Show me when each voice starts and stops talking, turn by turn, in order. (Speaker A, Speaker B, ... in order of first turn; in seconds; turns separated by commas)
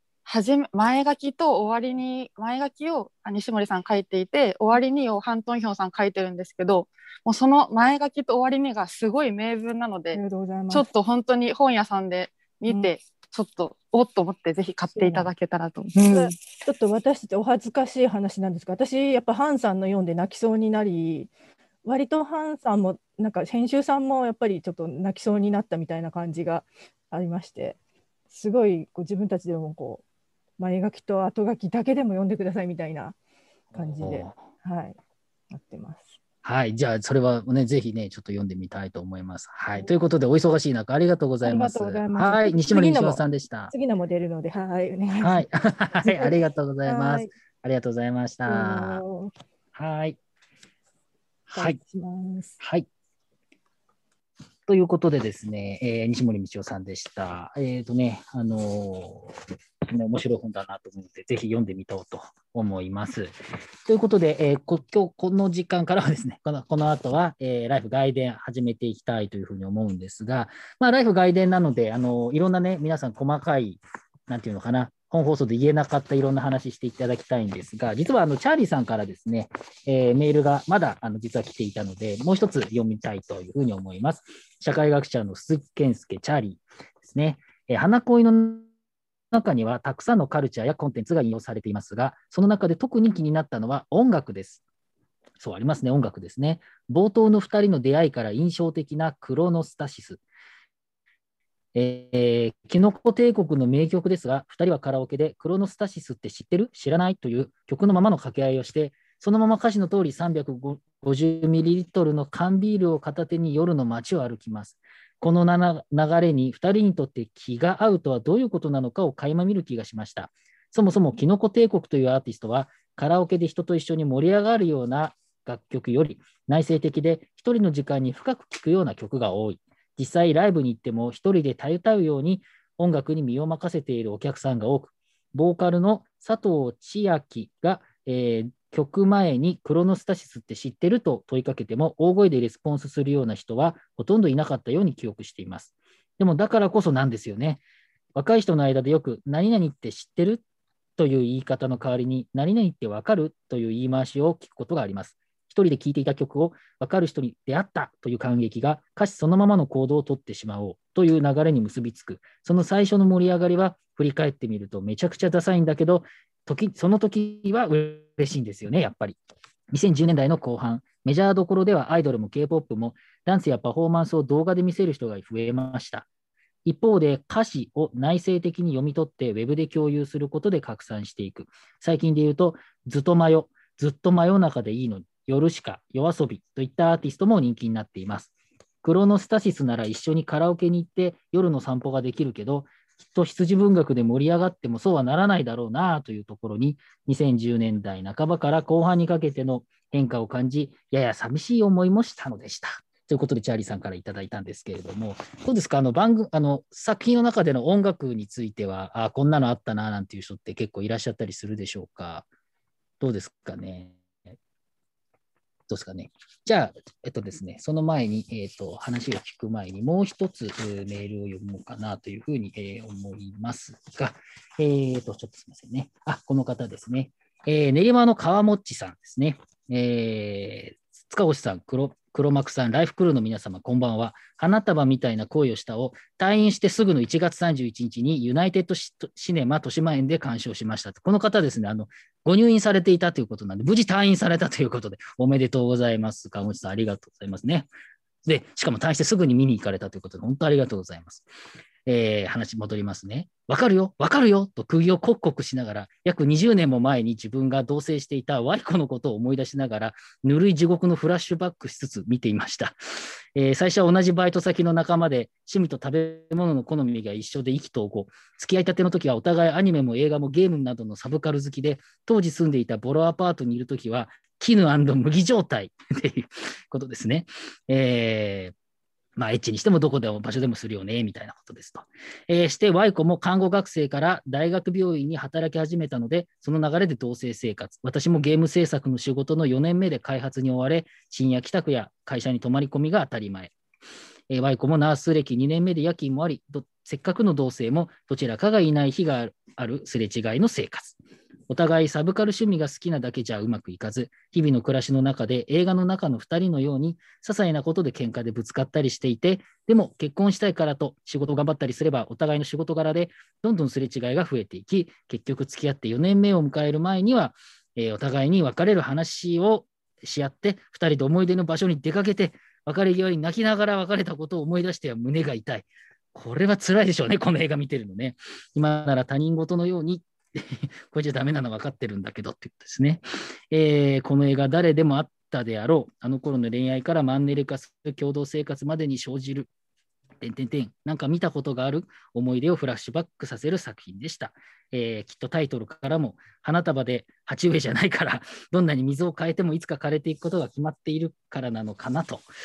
Speaker A: 0.3-10.2, Speaker B: 10.1-10.8, Speaker A: 10.7-16.4, Speaker B: 14.9-15.3, Speaker B: 15.9-21.3, Speaker B: 21.9-27.8, Speaker B: 28.3-30.0, Speaker B: 30.6-33.2, Speaker C: 33.7-34.4, Speaker B: 33.7-35.0, Speaker B: 35.5-36.1, Speaker C: 36.4-43.7, Speaker B: 41.4-45.5, Speaker C: 45.2-49.0, Speaker B: 46.0-47.3, Speaker B: 48.5-49.3, Speaker C: 49.8-50.2, Speaker B: 51.5-52.6, Speaker C: 51.5-51.8, Speaker C: 52.6-52.9, Speaker C: 54.7-59.4, Speaker C: 59.9-63.3, Speaker C: 63.9-88.7, Speaker C: 89.3-94.6, Speaker C: 95.4-100.2, Speaker C: 101.7-147.6, Speaker C: 148.2-150.4, Speaker C: 151.0-169.2, Speaker C: 169.7-176.1, Speaker C: 176.7-188.3, Speaker C: 188.8-212.3, Speaker C: 213.0-214.4, Speaker C: 215.7-247.7, Speaker C: 248.2-251.3, Speaker C: 251.9-262.8, Speaker C: 263.4-278.5, Speaker C: 279.2-293.5, Speaker C: 294.3-301.0, Speaker C: 301.5-339.5, Speaker C: 340.2-352.2